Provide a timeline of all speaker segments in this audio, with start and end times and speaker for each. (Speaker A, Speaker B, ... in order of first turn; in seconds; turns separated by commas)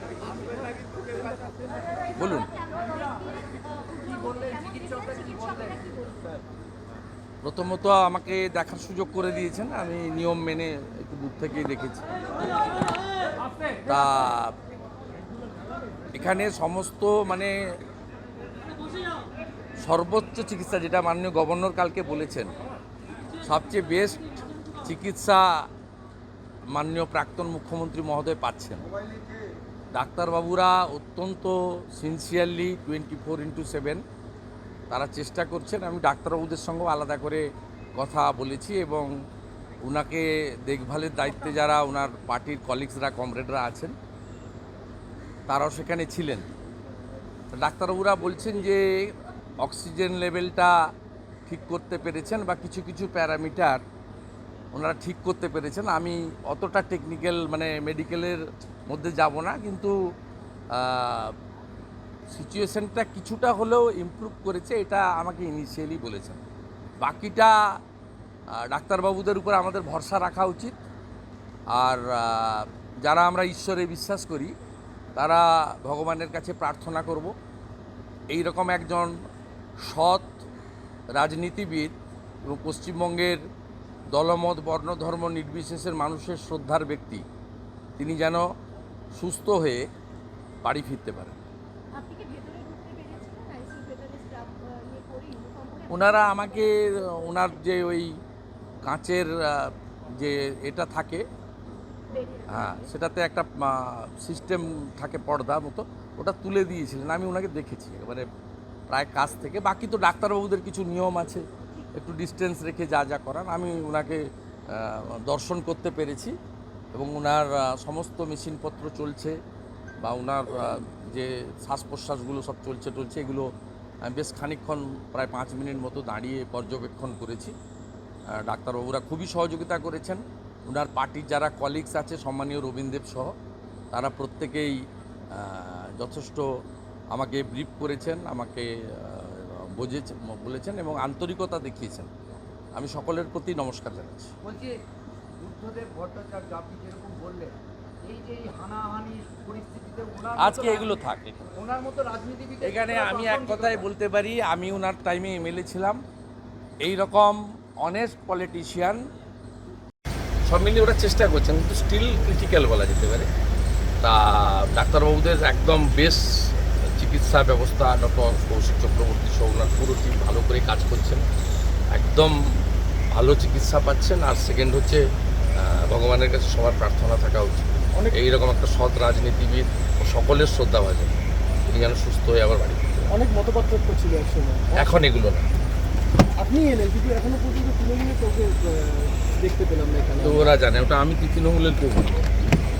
Speaker A: 2.1-2.5, Speaker B: 2.3-6.4, Speaker A: 7.4-12.1, Speaker A: 13.8-14.5, Speaker A: 16.1-17.5, Speaker A: 19.8-22.5, Speaker A: 23.4-25.6, Speaker A: 26.7-28.9, Speaker A: 29.9-34.0, Speaker A: 34.9-37.4, Speaker A: 38.0-39.1, Speaker A: 39.8-43.9, Speaker A: 45.5-46.5, Speaker A: 47.6-50.7, Speaker A: 51.5-53.8, Speaker A: 54.7-59.9, Speaker A: 60.7-61.3, Speaker A: 62.3-66.4, Speaker A: 67.0-67.5, Speaker A: 68.6-70.8, Speaker A: 71.8-74.5, Speaker A: 75.2-77.3, Speaker A: 78.3-79.1, Speaker A: 79.8-80.4, Speaker A: 81.2-81.9, Speaker A: 82.5-83.4, Speaker A: 84.1-87.2, Speaker A: 88.0-88.4, Speaker A: 89.2-89.9, Speaker A: 90.6-91.4, Speaker B: 91.9-97.1, Speaker A: 95.9-98.1, Speaker A: 98.8-101.2, Speaker B: 102.1-102.9, Speaker A: 102.5-108.3, Speaker A: 108.9-116.3, Speaker A: 116.9-119.4, Speaker A: 120.0-123.5, Speaker A: 124.0-127.5, Speaker A: 128.3-133.3, Speaker A: 133.9-134.8, Speaker A: 135.3-136.4, Speaker A: 137.1-142.1, Speaker A: 142.8-144.3, Speaker C: 144.4-144.7, Speaker C: 145.4-147.5, Speaker C: 148.1-151.0, Speaker A: 150.4-151.5, Speaker C: 151.6-153.8, Speaker A: 152.6-156.0, Speaker A: 156.8-159.0, Speaker A: 160.5-163.3, Speaker A: 164.0-171.3, Speaker A: 171.9-175.0, Speaker A: 175.5-183.1, Speaker D: 183.1-184.9, Speaker A: 184.7-185.5, Speaker D: 186.4-190.5, Speaker A: 190.2-192.2